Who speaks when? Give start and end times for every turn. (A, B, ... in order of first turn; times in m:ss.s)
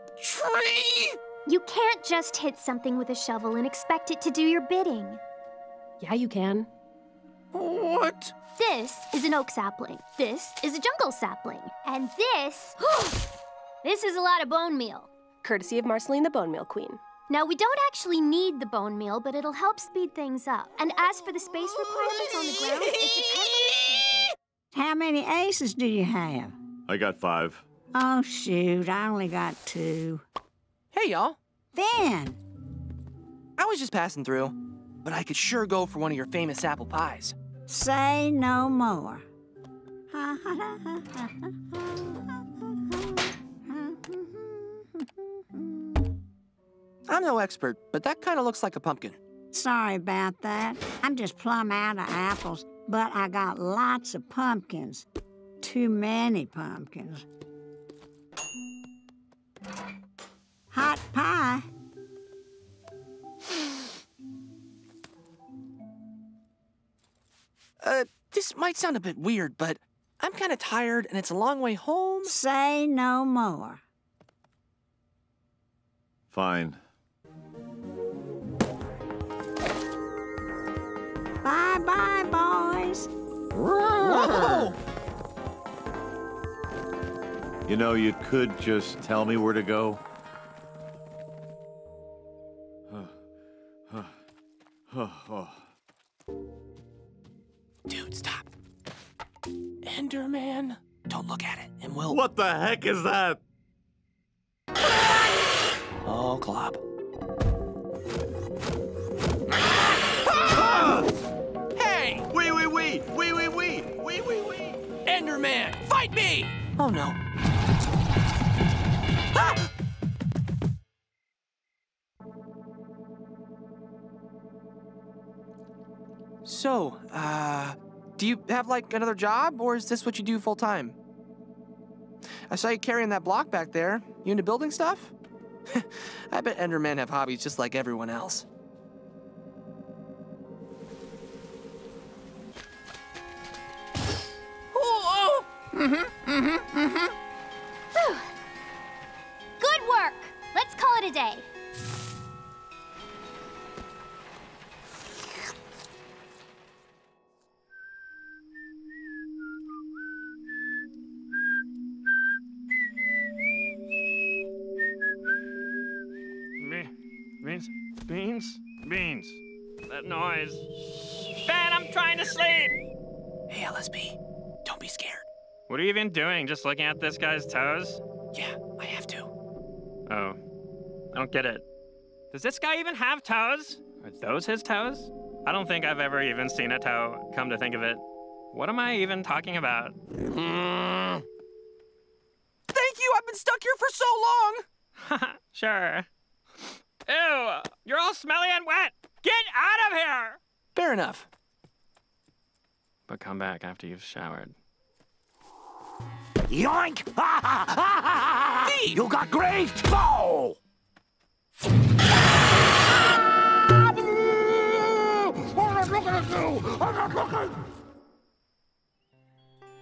0:00.4-0:01.2 A
0:01.5-0:05.2 B
0:06.0-0:06.7 A
0:07.6-0:08.3 A
0:08.6-0:13.0 B
0:13.8-0:15.1 B
0:15.4-0:17.0 A
0:17.3-0:24.2 B
0:24.7-0:26.6 C
0:26.9-0:27.6 D
0:28.0-0:30.2 C
0:30.9-0:31.4 E
0:31.7-0:32.4 C
0:33.6-0:37.4 E
0:37.7-0:39.2 C
0:40.1-0:42.2 C
0:42.9-0:46.0 C
0:47.1-0:49.2 E
0:49.5-0:55.1 C
0:55.6-0:57.2 C
1:00.7-1:01.7 C
1:07.8-1:12.3 E
1:12.2-1:13.8 C
1:16.3-1:16.8 D
1:21.4-1:23.1 C
1:23.8-1:24.8 E
1:27.7-1:30.0 D
1:34.9-1:35.6 D
1:37.9-1:38.5 E
1:39.8-1:42.2 E
1:42.1-1:43.4 D
1:46.1-1:46.8 E
1:50.3-1:50.8 E
1:50.7-1:51.0 D
1:51.8-1:52.3 E
1:52.3-1:54.8 D
1:55.1-1:57.2 E
1:59.4-1:59.7 E
2:06.4-2:11.0 E
2:12.5-2:15.1 E
2:15.7-2:18.5 E
2:24.7-2:25.4 E
2:28.0-2:28.3 B
2:29.6-2:31.5 B
2:46.6-2:50.6 F
2:51.4-2:52.8 F
2:53.5-2:55.3 E
2:55.7-2:58.0 F
2:58.3-2:59.3 E
3:00.1-3:00.4 F
3:01.1-3:01.6 F
3:02.3-3:10.0 F
3:12.7-3:14.6 E
3:15.0-3:16.1 F
3:16.6-3:20.4 F
3:20.8-3:21.3 E
3:23.1-3:24.6 F
3:26.5-3:30.6 G
3:28.6-3:29.1 E